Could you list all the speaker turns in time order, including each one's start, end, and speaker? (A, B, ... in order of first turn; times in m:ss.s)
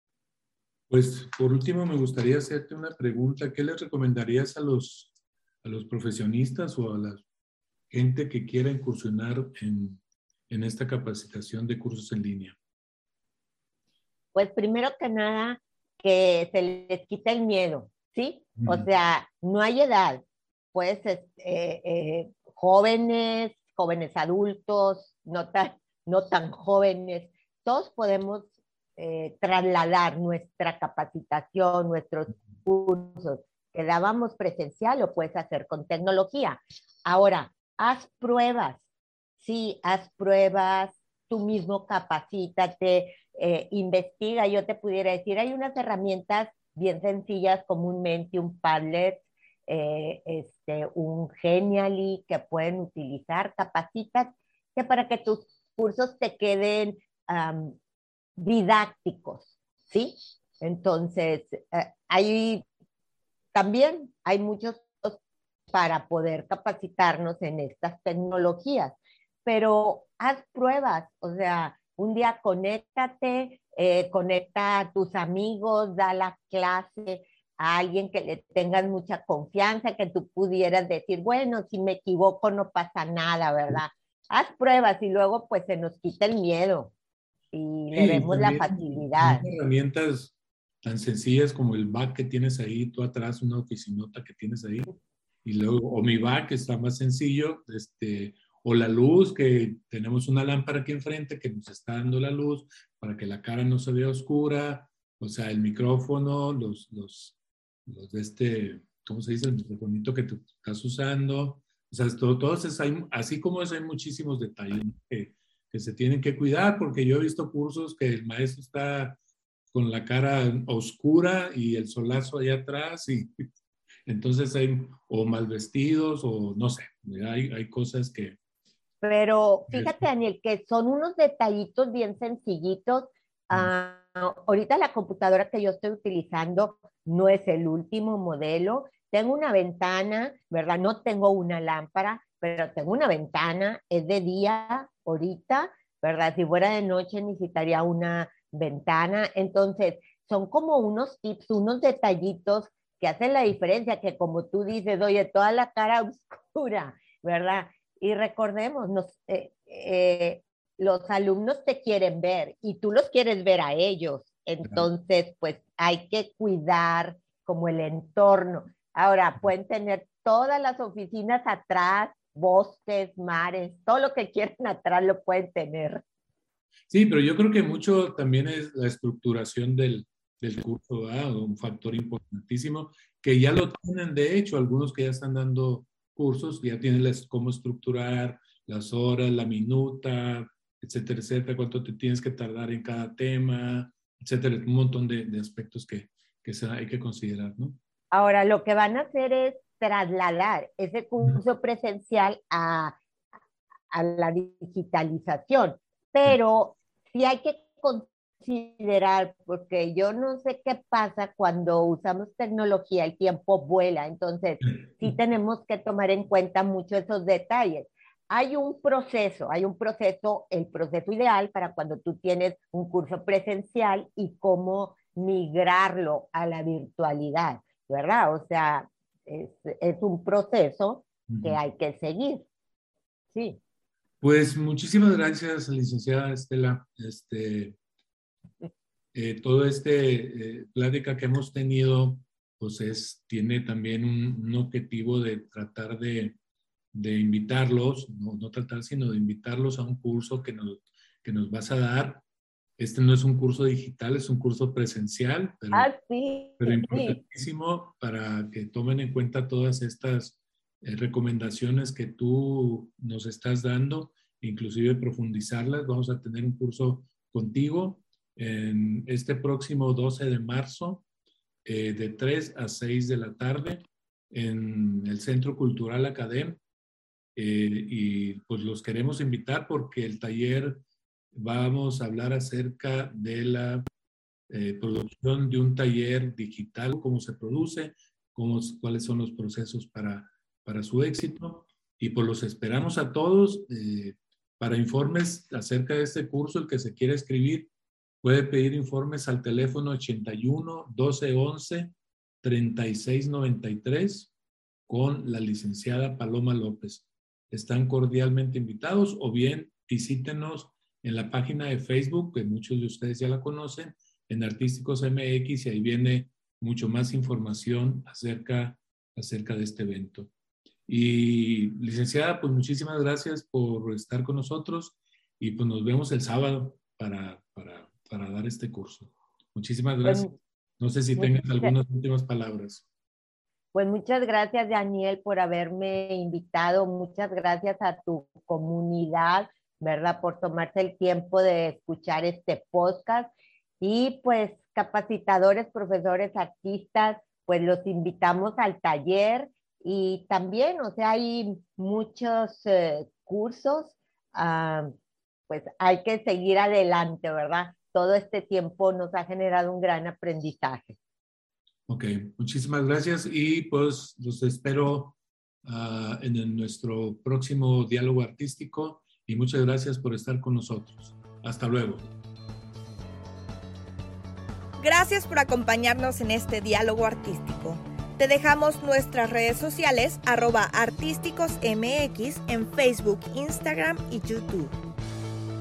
0:00.9-0:05.1 A
0:05.6-0:07.2 A
0:07.9-0:12.6 A
0:14.4-0:20.2 B
0:18.6-0:18.9 A
0:20.7-0:38.8 B
0:39.4-0:57.8 B
0:58.4-1:02.6 B
1:03.5-1:05.2 B
1:05.7-1:26.9 B
1:27.5-1:29.4 B
1:27.9-1:34.9 A
1:35.4-1:59.2 A
1:59.7-2:03.3 A
2:04.1-2:08.4 A
2:09.0-2:56.0 B
2:09.7-2:10.0 A
2:56.9-3:17.8 A
3:18.1-3:23.0 B
3:23.9-3:52.5 B
3:51.3-3:51.6 A
3:53.3-3:53.6 B
3:54.2-3:57.8 A
3:59.1-4:06.4 A
4:06.9-4:12.2 A
4:12.8-4:15.9 A
4:15.7-4:17.2 B
4:16.6-4:31.0 A
4:31.6-4:36.6 A
4:37.4-4:40.8 A
4:41.3-4:43.8 A
4:44.5-4:57.7 A
4:58.2-5:04.3 A
5:04.9-5:20.3 A
5:20.9-5:30.3 A
5:30.0-5:30.3 B
5:30.8-5:32.8 A
5:31.2-5:31.7 B
5:33.7-5:54.9 B
5:55.5-6:01.0 B
6:01.9-6:12.1 A
6:14.8-6:24.7 C